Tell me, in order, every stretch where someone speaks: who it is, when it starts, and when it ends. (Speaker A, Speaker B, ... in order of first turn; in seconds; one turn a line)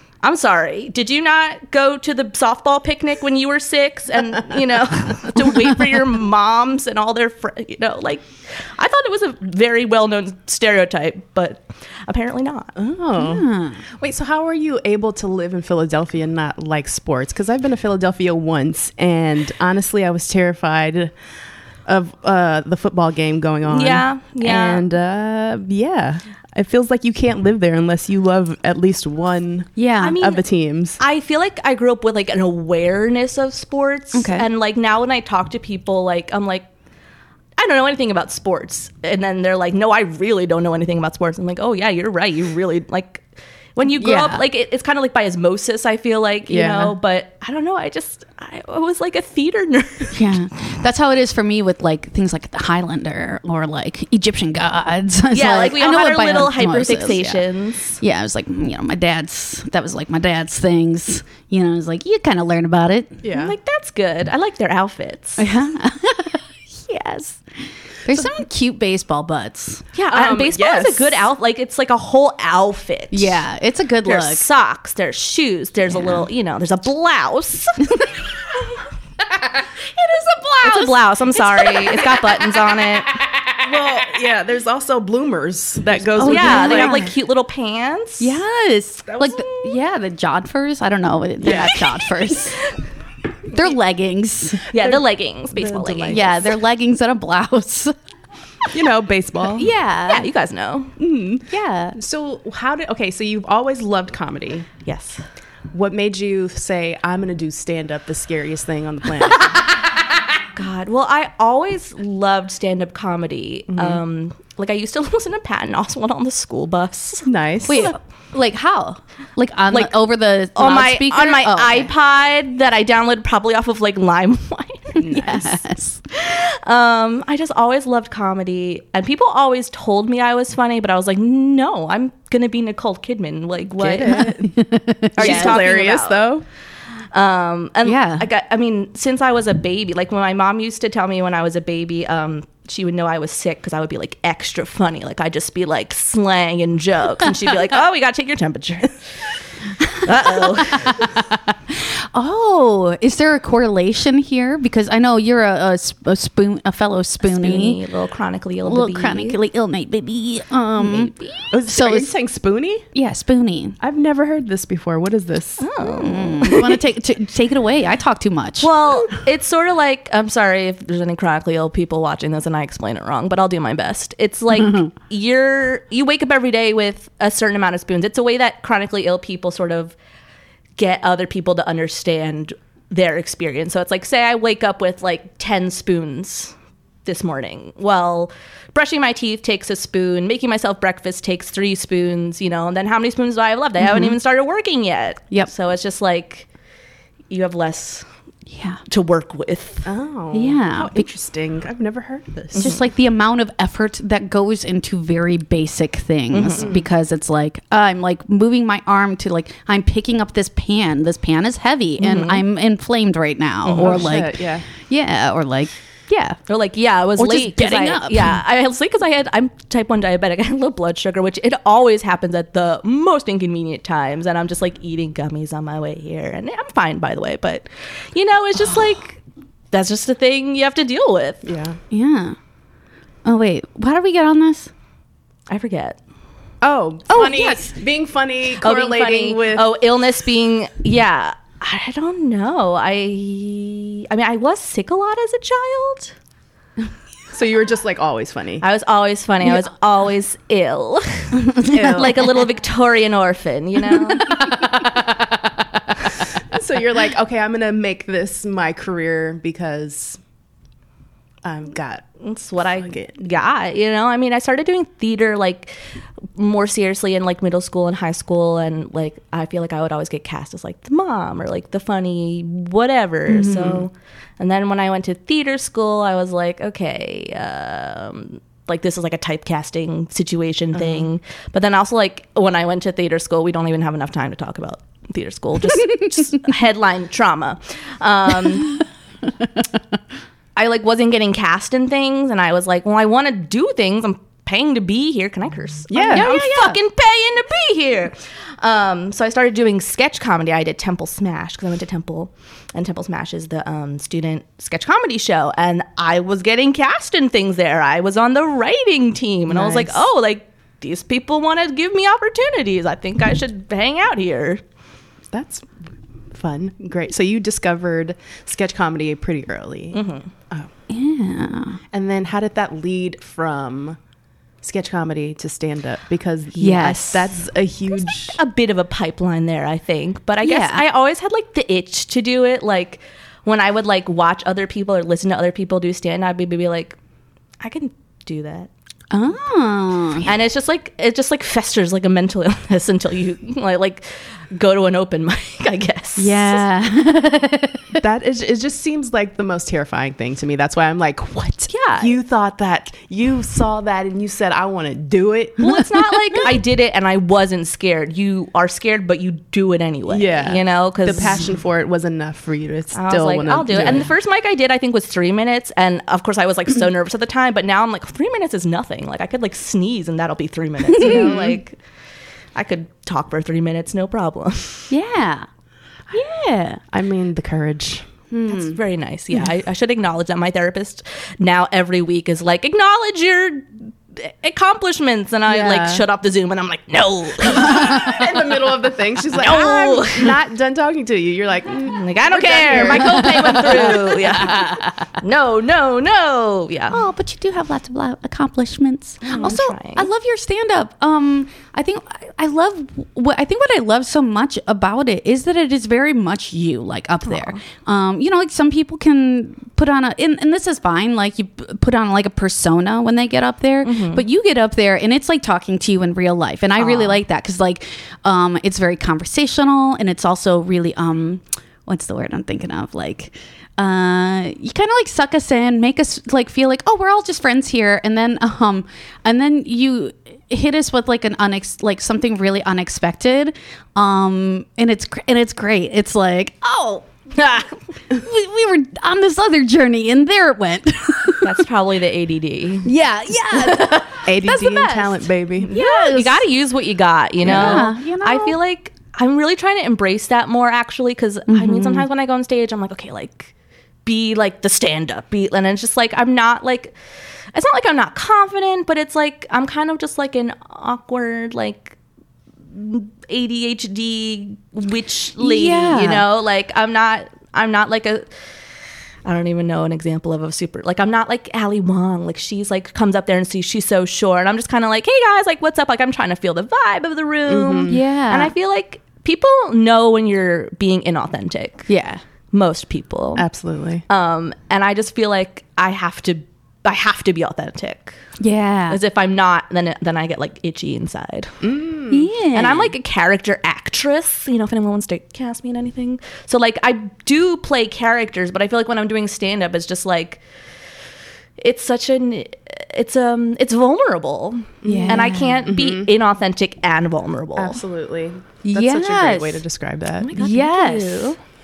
Speaker A: 0.2-12.7
Speaker B: 12.8-21.1
Speaker C: 13.2-13.8
Speaker B: 21.9-31.0
Speaker A: 23.7-24.8
Speaker C: 29.8-30.2
Speaker A: 30.0-30.4
Speaker A: 31.0-36.7
Speaker C: 34.1-34.5
Speaker A: 37.6-43.2
Speaker A: 43.8-50.3
Speaker C: 44.0-44.5
Speaker B: 46.5-47.0
Speaker C: 50.1-57.4
Speaker A: 55.3-58.0
Speaker C: 58.0-63.2
Speaker B: 63.2-63.5
Speaker A: 63.3-65.5
Speaker C: 65.4-67.4
Speaker C: 68.1-69.8
Speaker A: 69.9-73.4
Speaker B: 70.1-71.2
Speaker C: 73.1-74.5
Speaker A: 74.0-78.7
Speaker C: 75.9-76.3
Speaker A: 80.6-83.3
Speaker C: 80.7-82.1
Speaker B: 83.6-87.0
Speaker A: 86.2-88.4
Speaker C: 86.2-87.1
Speaker C: 88.2-92.6
Speaker B: 91.4-91.8
Speaker A: 91.5-92.6
Speaker C: 93.5-94.7
Speaker A: 94.7-96.5
Speaker B: 94.8-96.5
Speaker C: 96.1-97.9
Speaker B: 98.7-99.7
Speaker C: 99.5-100.2
Speaker A: 100.1-101.0
Speaker B: 101.0-104.7
Speaker C: 101.5-102.0
Speaker A: 104.8-105.2
Speaker B: 105.7-109.6
Speaker A: 110.5-117.9
Speaker B: 113.7-114.0
Speaker B: 117.2-117.9
Speaker C: 117.7-121.9
Speaker A: 120.5-125.2
Speaker C: 125.0-126.0
Speaker B: 125.0-125.5
Speaker A: 126.1-134.3
Speaker B: 133.8-134.6
Speaker C: 134.2-135.6
Speaker A: 135.2-136.3
Speaker B: 135.2-136.4
Speaker A: 137.1-149.0
Speaker C: 137.8-138.2
Speaker A: 149.9-151.1
Speaker C: 150.6-157.8
Speaker A: 157.2-159.4
Speaker C: 158.7-161.1
Speaker A: 160.8-161.5
Speaker B: 161.5-162.9
Speaker C: 161.6-162.1
Speaker C: 162.9-163.8
Speaker B: 163.8-165.7
Speaker A: 165.6-166.8
Speaker C: 165.8-168.9
Speaker A: 168.6-179.9
Speaker A: 180.8-186.5
Speaker A: 187.1-196.5
Speaker C: 193.8-194.2
Speaker A: 197.3-198.1
Speaker C: 198.5-198.8
Speaker A: 198.9-199.9
Speaker B: 199.8-202.7
Speaker C: 200.3-201.1
Speaker A: 202.5-202.8
Speaker C: 202.6-216.4
Speaker A: 206.3-206.7
Speaker B: 206.6-206.8
Speaker A: 212.0-212.4
Speaker A: 213.7-214.1
Speaker B: 213.8-214.7
Speaker A: 216.5-229.2
Speaker C: 217.2-218.4
Speaker A: 229.7-231.5
Speaker B: 231.4-231.8
Speaker C: 231.9-232.4
Speaker C: 233.2-234.7
Speaker A: 235.5-236.0
Speaker B: 236.6-239.7
Speaker C: 237.1-237.6
Speaker A: 238.6-246.1
Speaker B: 247.3-248.7
Speaker A: 248.6-254.8
Speaker C: 251.4-251.9
Speaker B: 251.6-252.4
Speaker B: 256.5-260.2
Speaker B: 261.4-262.0
Speaker A: 262.2-265.8
Speaker B: 262.8-263.2
Speaker A: 266.4-288.8
Speaker C: 273.4-273.7
Speaker B: 280.8-281.1
Speaker A: 290.6-314.6
Speaker B: 295.9-296.3
Speaker C: 296.0-296.8
Speaker B: 309.5-310.0
Speaker B: 315.3-315.7
Speaker B: 316.3-320.7
Speaker A: 319.9-320.3
Speaker C: 320.9-321.8
Speaker B: 321.9-324.0
Speaker B: 324.6-328.4
Speaker A: 326.6-326.8
Speaker C: 326.6-327.3
Speaker A: 327.9-337.0
Speaker C: 330.4-330.8
Speaker A: 337.6-338.7
Speaker C: 339.1-340.3
Speaker A: 340.2-346.6
Speaker C: 346.2-348.0
Speaker B: 347.9-355.7
Speaker A: 351.7-352.2
Speaker A: 355.6-361.4
Speaker B: 360.1-364.1
Speaker A: 362.9-371.8
Speaker C: 371.0-371.3
Speaker B: 371.0-371.6
Speaker A: 372.5-374.9
Speaker C: 374.9-375.5
Speaker C: 376.1-376.8
Speaker B: 376.9-378.0
Speaker C: 378.3-378.8
Speaker A: 378.5-388.3
Speaker B: 385.5-386.0
Speaker B: 387.5-394.4
Speaker A: 389.3-390.4
Speaker A: 391.9-397.0
Speaker C: 392.9-394.0
Speaker C: 396.9-437.1
Speaker A: 399.3-400.1
Speaker A: 407.3-407.6
Speaker A: 413.8-414.2
Speaker A: 416.8-417.2
Speaker A: 437.3-437.8
Speaker C: 438.1-441.6
Speaker A: 441.4-442.9
Speaker C: 442.8-446.5
Speaker B: 444.1-445.8
Speaker A: 445.7-453.5
Speaker C: 447.4-448.6
Speaker B: 447.5-447.8
Speaker C: 451.5-452.1
Speaker A: 454.0-456.9
Speaker A: 457.5-462.0
Speaker A: 462.7-468.3
Speaker C: 465.4-466.2
Speaker A: 469.2-481.9
Speaker B: 477.5-478.0
Speaker C: 477.9-478.5
Speaker C: 481.9-482.2
Speaker A: 482.5-483.4
Speaker B: 483.4-484.0
Speaker A: 484.1-488.2
Speaker C: 488.4-489.0
Speaker A: 488.9-491.6
Speaker B: 491.6-492.3
Speaker C: 492.1-492.9
Speaker A: 492.5-500.4
Speaker A: 501.6-507.8
Speaker B: 504.8-506.1
Speaker C: 504.9-505.6
Speaker B: 507.6-510.3
Speaker C: 508.6-509.6
Speaker A: 510.2-511.4
Speaker C: 510.4-511.4